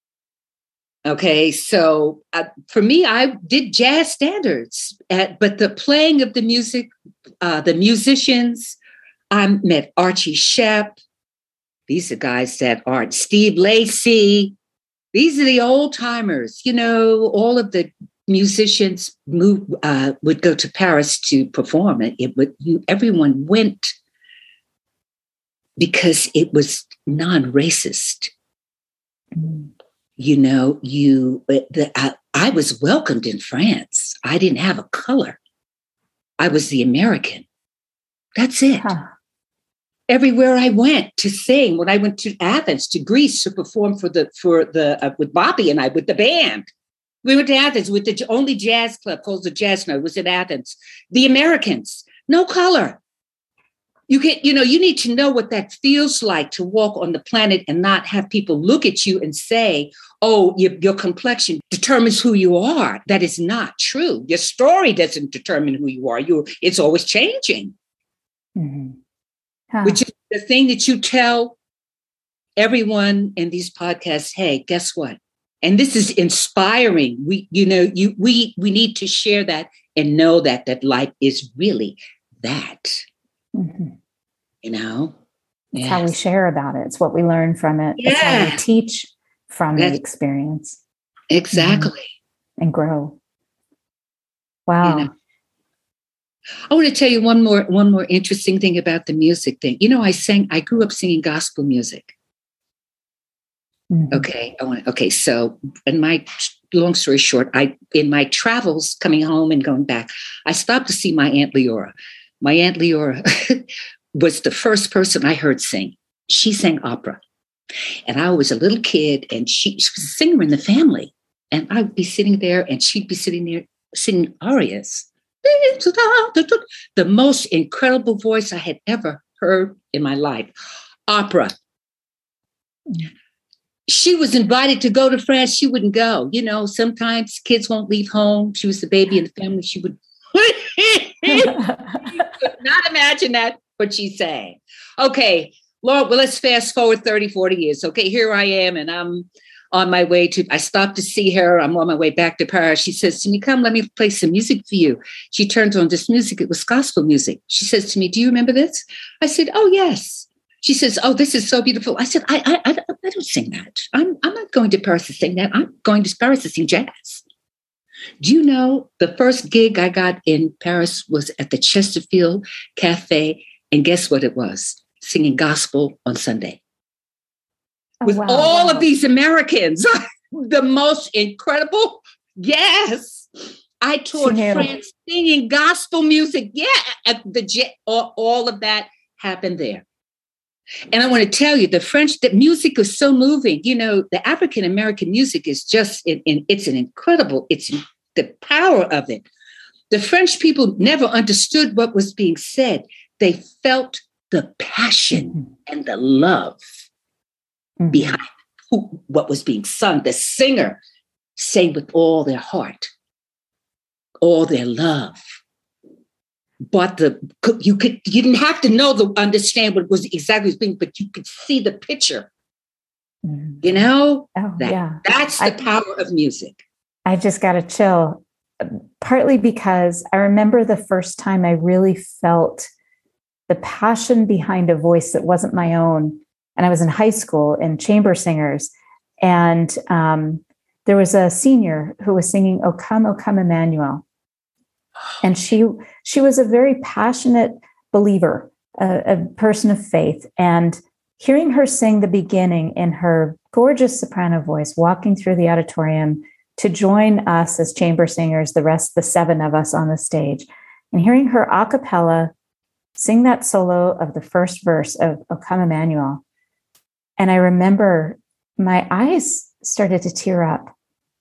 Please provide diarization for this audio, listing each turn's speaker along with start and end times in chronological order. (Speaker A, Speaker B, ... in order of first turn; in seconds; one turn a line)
Speaker A: 1.1-8.8
Speaker A: 9.3-11.0
Speaker A: 11.9-14.6
Speaker A: 15.1-23.9
Speaker A: 25.8-28.3
Speaker B: 29.4-29.7
Speaker A: 30.2-35.4
Speaker A: 36.4-37.5
Speaker A: 38.4-38.9
Speaker B: 38.8-39.1
Speaker A: 40.1-46.7
Speaker A: 47.2-53.0
Speaker A: 54.1-67.7
Speaker B: 68.6-69.0
Speaker B: 69.7-70.0
Speaker A: 69.8-71.5
Speaker A: 72.6-83.0
Speaker B: 83.5-83.9
Speaker A: 84.6-85.2
Speaker A: 85.7-86.1
Speaker B: 85.8-90.8
Speaker A: 88.0-88.6
Speaker A: 91.3-92.0
Speaker B: 91.5-91.9
Speaker B: 92.6-93.2
Speaker B: 94.7-95.1
Speaker A: 94.8-95.1
Speaker A: 96.7-102.1
Speaker B: 103.9-104.2
Speaker A: 104.1-117.2
Speaker A: 118.1-130.5
Speaker A: 131.1-131.6
Speaker A: 133.9-167.2
Speaker B: 141.3-142.0
Speaker A: 168.2-176.6
Speaker B: 178.0-178.9
Speaker A: 178.1-183.3
Speaker A: 183.8-189.8
Speaker B: 184.2-184.7
Speaker A: 190.9-199.3
Speaker A: 199.9-206.6
Speaker B: 205.2-205.5
Speaker B: 207.8-208.2
Speaker A: 207.9-210.8
Speaker A: 211.4-212.9
Speaker A: 214.2-215.2
Speaker A: 216.7-222.3
Speaker B: 223.3-223.6
Speaker A: 223.6-226.6
Speaker B: 224.4-225.6
Speaker B: 227.1-232.7
Speaker B: 233.5-238.7
Speaker B: 239.2-244.0
Speaker B: 245.2-262.3
Speaker B: 263.0-266.2
Speaker B: 267.2-270.7